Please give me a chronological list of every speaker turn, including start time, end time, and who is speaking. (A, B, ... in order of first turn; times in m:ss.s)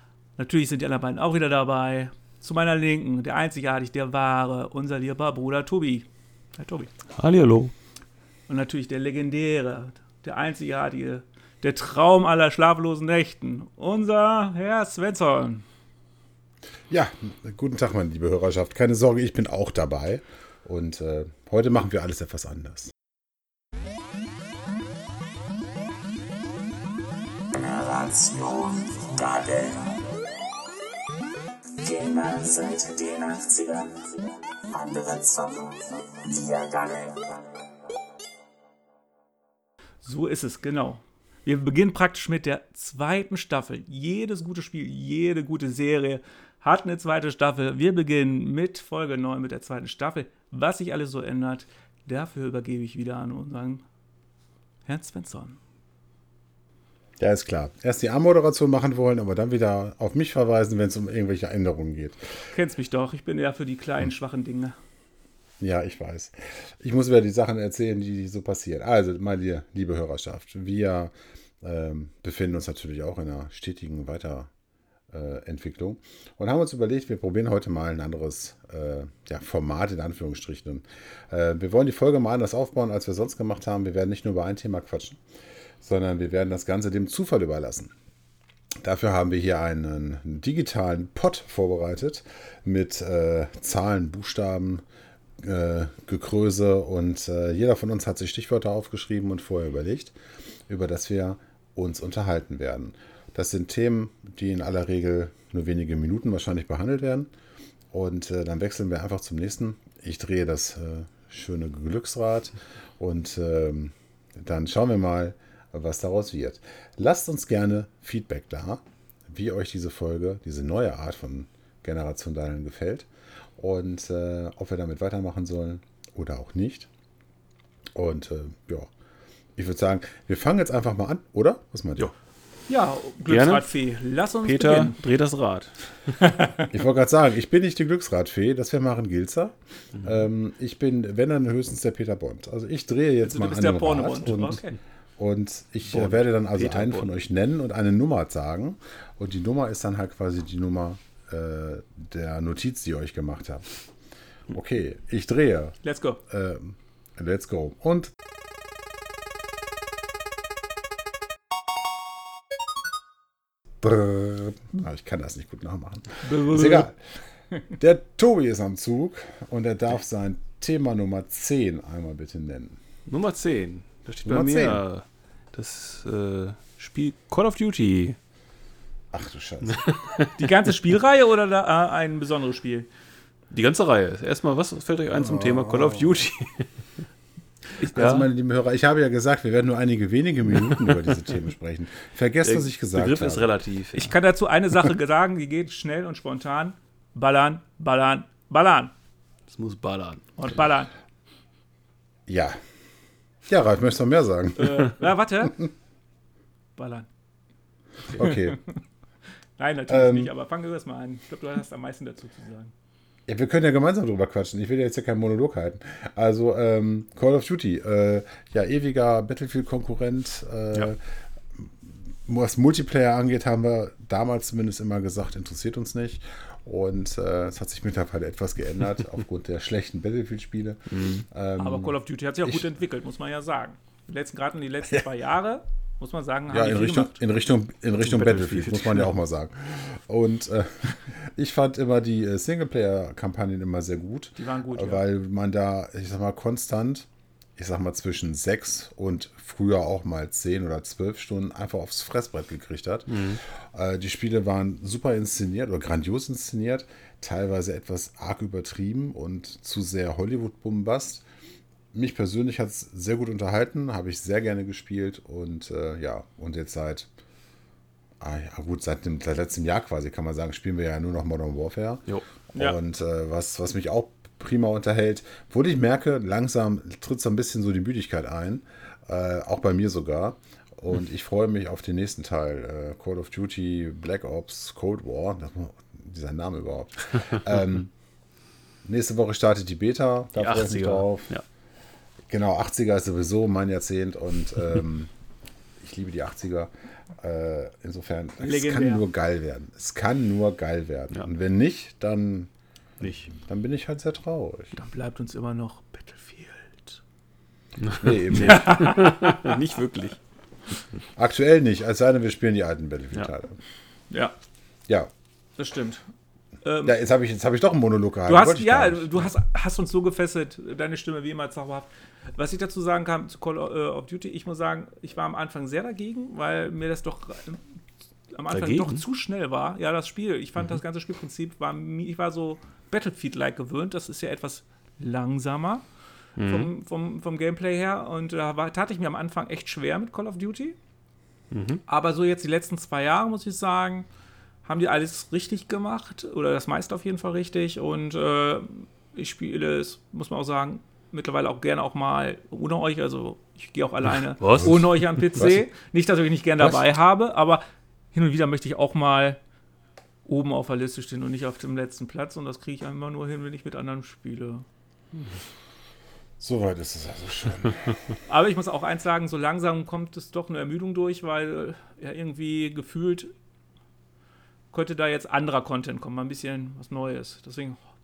0:00.4-0:06.9 A
0:07.2-0:07.7 B
0:08.5-0:15.6 A
0:16.9-0:22.9 C
0:27.5-0:30.1 D
0:31.8-0:37.6 D
0:40.0-0:53.8 A
0:54.8-0:55.6 A
0:57.2-1:02.4 C
1:02.5-1:04.7 A
1:05.6-1:14.5 C
1:15.1-1:25.2 C
1:25.8-1:27.9 C
1:28.8-1:34.8 C
1:35.4-1:40.2 C
1:40.7-1:47.3 C
1:47.9-2:06.9 C
2:07.9-2:08.9 C
2:09.6-2:12.1 C
2:12.7-2:15.0 A
2:13.3-2:13.6 B
2:14.4-2:16.1 B
2:16.3-2:16.6 A
2:16.7-2:24.6 C
2:23.2-2:24.8 A
2:25.2-2:33.7 C
2:25.9-2:27.1 B
2:34.5-2:35.8 C
2:35.8-2:36.2 A
2:36.3-2:38.1 C
2:43.8-2:47.0 C
2:46.2-2:46.9 A
2:47.7-2:52.8 C
2:53.1-2:58.2 B
2:54.2-2:54.8 C
2:59.1-2:59.8 C
2:59.7-3:00.3 B
3:00.4-3:02.9 A
3:03.5-3:06.7 B
3:05.1-3:06.2 C
3:07.8-3:08.3 B
3:07.8-3:13.5 C
3:12.4-3:14.1 B
3:13.9-3:18.9 A
3:19.5-3:20.2 B
3:20.4-3:20.9 A
3:22.3-3:22.6 C
3:23.5-3:25.0 C
3:24.6-3:25.7 A
3:26.8-3:27.1 A
3:28.1-3:28.6 C
3:28.2-3:28.6 A
3:29.6-3:32.7 A
3:29.9-3:30.3 C
3:33.3-3:41.0 C
3:41.5-3:52.7 C
3:50.9-3:51.2 B
3:51.6-3:57.2 A
3:56.5-4:21.2 C
3:58.0-3:59.1 B
4:04.4-4:05.0 A
4:13.1-4:13.4 B
4:21.9-4:27.1 C
4:28.2-4:47.9 C
4:48.8-4:51.3 C
4:50.4-4:51.4 B
4:52.3-4:55.1 C
4:55.8-5:02.5 C
4:58.4-4:59.0 A
5:03.0-5:03.3 B
5:03.0-5:04.7 C
5:04.7-5:07.0 A
5:07.8-5:10.2 B
5:07.9-5:09.1 C
5:08.4-5:09.5 A
5:11.1-5:13.6 C
5:15.6-5:16.0 A
5:16.6-5:16.9 A
5:16.8-5:19.3 C
5:18.3-5:27.6 A
5:28.3-5:35.8 A
5:28.5-5:29.0 B
5:36.4-5:36.7 B
5:36.4-5:40.8 A
5:41.5-5:41.8 B
5:41.9-5:44.0 A
5:44.6-5:59.4 A
5:54.4-5:55.0 B
6:00.2-6:04.6 A
6:06.4-6:08.0 C
6:08.3-6:13.3 A
6:14.7-6:17.8 A